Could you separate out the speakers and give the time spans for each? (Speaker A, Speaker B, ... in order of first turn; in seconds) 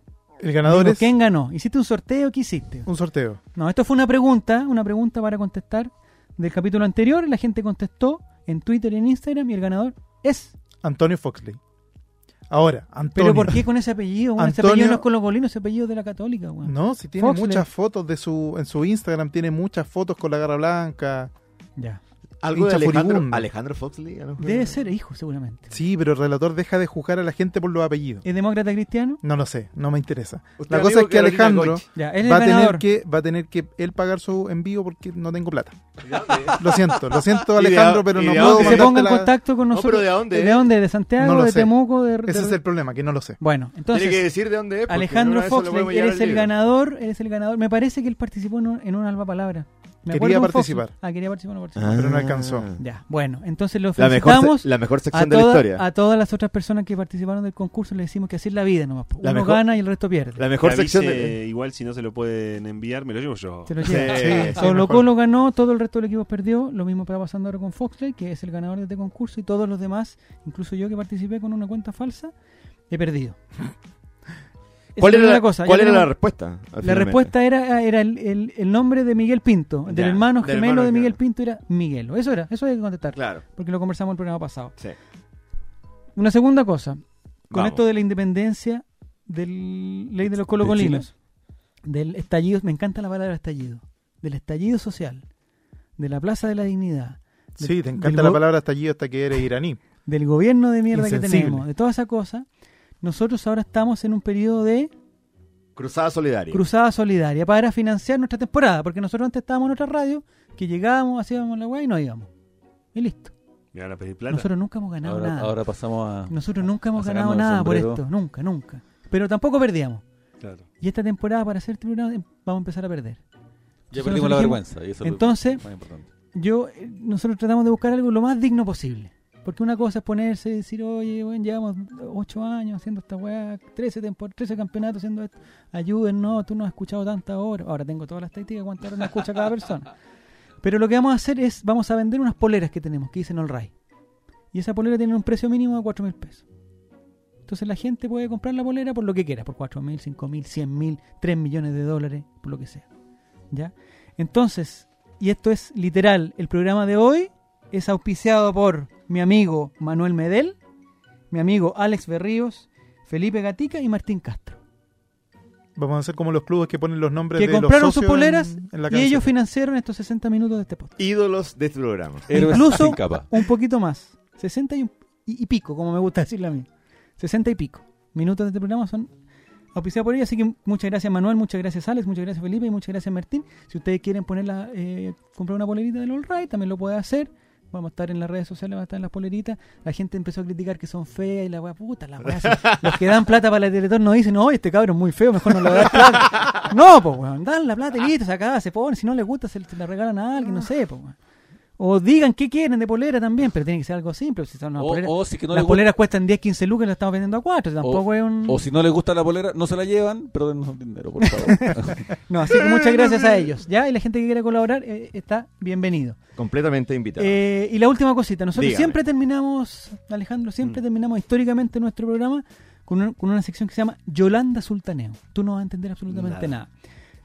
Speaker A: 0.4-1.1, 2.9-3.4, 10.8-11.6, 12.5-13.7, 14.4-15.1, 16.6-21.3, 22.5-23.4, 25.7-28.2, 29.2-35.8, 36.5-39.3, 41.2-41.7, 42.2-43.4, 50.1-50.9, 51.9-52.7, 64.1-65.0, 97.6-99.8, 100.9-101.7, 165.8-169.3
Speaker B: 0.7-2.9, 3.5-10.6, 13.1-17.7, 24.4-25.7, 28.2-29.2, 31.9-32.8, 38.3-42.6, 43.4-44.3, 44.9-52.0, 52.8-60.4, 63.7-72.3, 72.9-73.4, 75.0-76.1, 76.8-84.7, 86.2-87.0, 87.5-91.1, 91.9-95.2, 96.0-98.4, 100.0-102.5, 103.0-104.9, 106.5-112.3, 112.9-113.3, 114.3-115.6, 116.3-120.0, 120.8-123.2, 123.9-125.6, 126.3-139.9, 140.6-143.7, 144.5-146.4, 147.4-152.9, 153.5-160.6, 161.3-164.6, 167.4-170.9, 172.3-176.7, 177.2-179.1, 179.7-201.2, 201.8-208.6, 211.2-216.2, 217.2-226.7
Speaker C: 22.4-24.8, 30.6-31.9, 36.0-39.0, 39.7-40.7, 43.9-46.5, 51.8-52.8, 54.0-55.8, 59.2-59.6, 60.4-61.3, 63.8-64.6, 75.0-77.3, 79.9-81.2, 83.1-83.4, 87.5-87.8, 105.8-106.6, 171.0-172.8, 212.7-213.2, 216.4-217.4, 218.6-219.0, 226.1-226.5
Speaker D: 60.6-64.6, 113.7-114.5, 120.4-120.7
Speaker E: 90.3-91.1, 115.0-118.0, 123.9-126.1, 172.3-173.3, 204.8-205.9, 207.8-212.1